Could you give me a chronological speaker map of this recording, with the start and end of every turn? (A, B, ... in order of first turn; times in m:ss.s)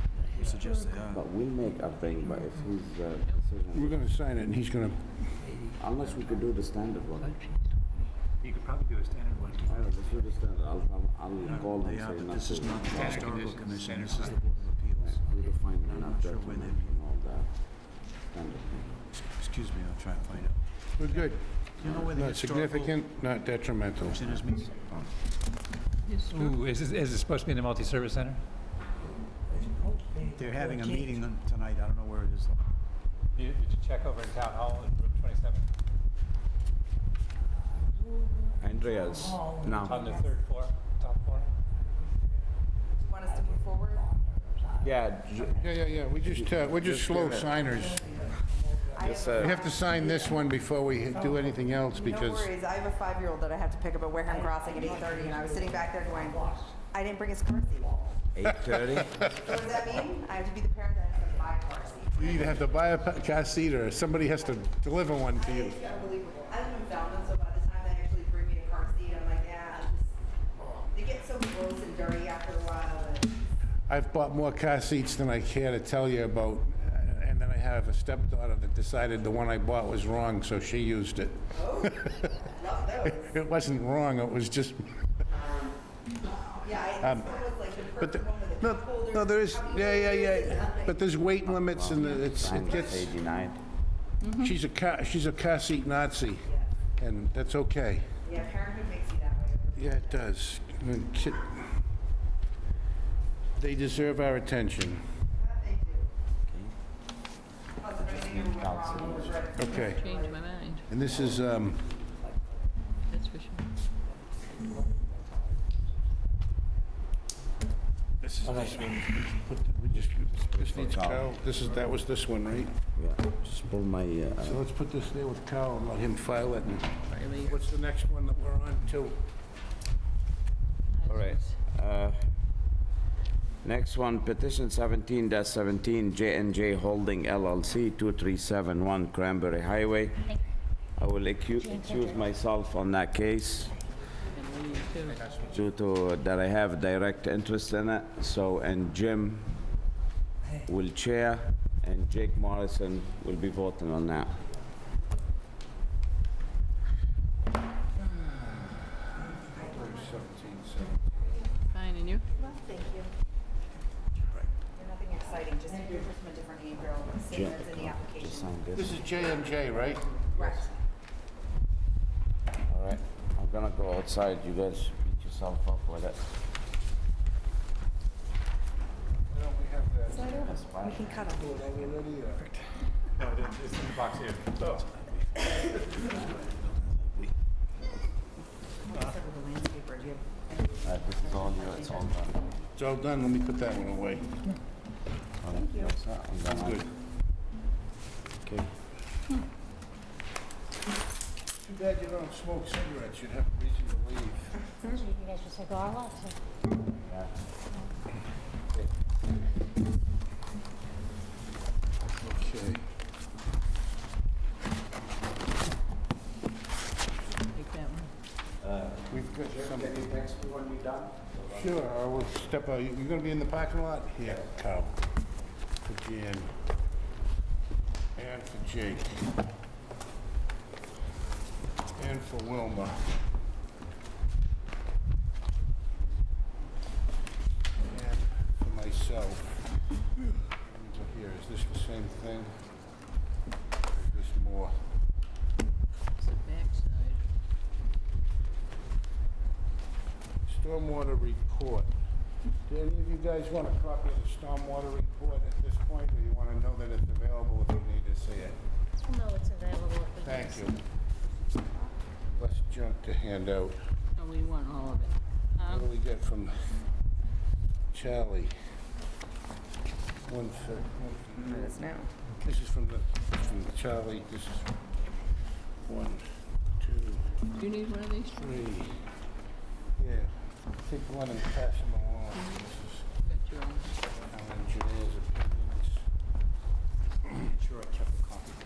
0:00.2-0:00.7 A
0:00.3-0:01.3 B
0:01.1-0:04.0 C
0:03.7-0:05.5 D
0:05.8-0:07.5 C
0:08.4-0:10.3 A
0:09.6-0:13.4 C
0:11.4-0:17.0 B
0:12.9-0:14.5 A
0:15.0-0:19.0 C
0:19.4-0:21.2 B
0:21.0-0:24.3 D
0:21.8-0:23.0 B
0:24.0-0:24.8 B
0:26.1-0:26.6 E
0:26.3-0:28.4 A
0:30.3-0:32.6 B
0:33.4-0:35.7 A
0:38.6-0:40.1 C
0:39.8-0:41.5 A
0:43.0-0:44.1 F
0:44.8-0:45.7 C
0:45.6-0:48.2 D
0:46.2-0:47.5 C
0:48.8-0:50.2 F
0:49.0-0:49.6 C
0:49.4-0:52.5 D
0:51.9-0:58.0 F
0:58.3-0:59.2 C
0:58.6-0:59.5 D
0:59.4-1:02.6 F
1:02.2-1:05.8 D
1:05.3-1:10.2 F
1:10.9-1:13.4 F
1:13.9-1:22.3 D
1:21.5-1:23.4 F
1:23.2-1:24.8 D
1:26.6-1:31.0 F
1:27.0-1:27.5 D
1:28.0-1:33.1 D
1:31.4-1:33.6 C
1:32.6-1:33.1 F
1:34.2-1:34.5 E
1:34.4-1:38.2 D
1:36.4-1:36.7 F
1:38.2-1:40.2 F
1:39.8-1:41.7 D
1:43.6-1:45.2 D
1:45.3-1:46.1 F
1:46.5-1:46.7 C
1:47.8-1:50.4 F
1:48.1-1:49.5 C
1:49.5-1:50.0 D
1:49.6-1:50.9 E
1:50.9-1:51.9 D
1:53.1-1:53.8 E
1:58.2-2:02.7 D
2:00.5-2:01.3 C
2:03.0-2:04.6 C
2:04.4-2:09.2 D
2:07.1-2:07.6 E
2:11.0-2:11.6 E
2:11.1-2:12.2 C
2:13.6-2:20.4 C
2:21.0-2:23.8 C
2:24.3-2:25.3 E
2:25.4-2:29.6 C
2:30.7-2:34.4 C
2:39.6-2:41.0 D
2:41.7-2:42.3 E
2:42.3-2:43.1 F
2:44.8-2:48.5 F
2:47.3-2:49.1 C
2:48.8-2:50.3 D
2:50.3-2:50.7 F
2:52.7-2:56.2 C
2:59.3-3:00.5 D
3:00.1-3:01.5 F
3:00.3-3:02.0 C
3:01.3-3:02.6 D
3:03.2-3:04.8 A
3:08.9-3:12.1 F
3:10.8-3:12.6 C
3:12.8-3:14.5 D
3:15.4-3:16.8 C
3:15.5-3:15.9 F
3:16.4-3:16.9 D
3:18.4-3:18.7 C
3:21.6-3:24.6 D
3:24.9-3:26.3 G
3:27.0-3:27.3 C
3:32.1-3:32.8 D
3:37.5-3:38.1 E
3:39.1-3:40.2 D
3:39.8-3:41.1 B
3:41.5-3:45.0 D
3:45.8-3:46.5 D
3:48.2-3:49.3 D
3:52.0-3:53.2 D
3:57.8-3:59.7 D
4:00.5-4:02.5 D
4:03.9-4:04.7 D
4:06.2-4:07.2 E
4:10.5-4:11.9 D
4:12.7-4:18.6 D
4:19.0-4:20.6 G
4:20.2-4:20.8 D
4:22.3-4:23.8 D
4:24.2-4:25.9 E
4:25.6-4:26.5 D
4:27.9-4:28.5 D
4:30.2-4:31.8 D
4:31.4-4:32.1 F
4:32.4-4:34.7 D
4:35.9-4:36.2 D
4:36.8-4:37.4 D
4:37.6-4:38.7 E
4:38.3-4:39.0 D
4:40.0-4:43.1 D
4:42.4-4:42.7 E
4:43.2-4:44.0 E
4:44.2-4:46.0 D
4:47.8-4:48.4 A
4:47.8-4:48.6 B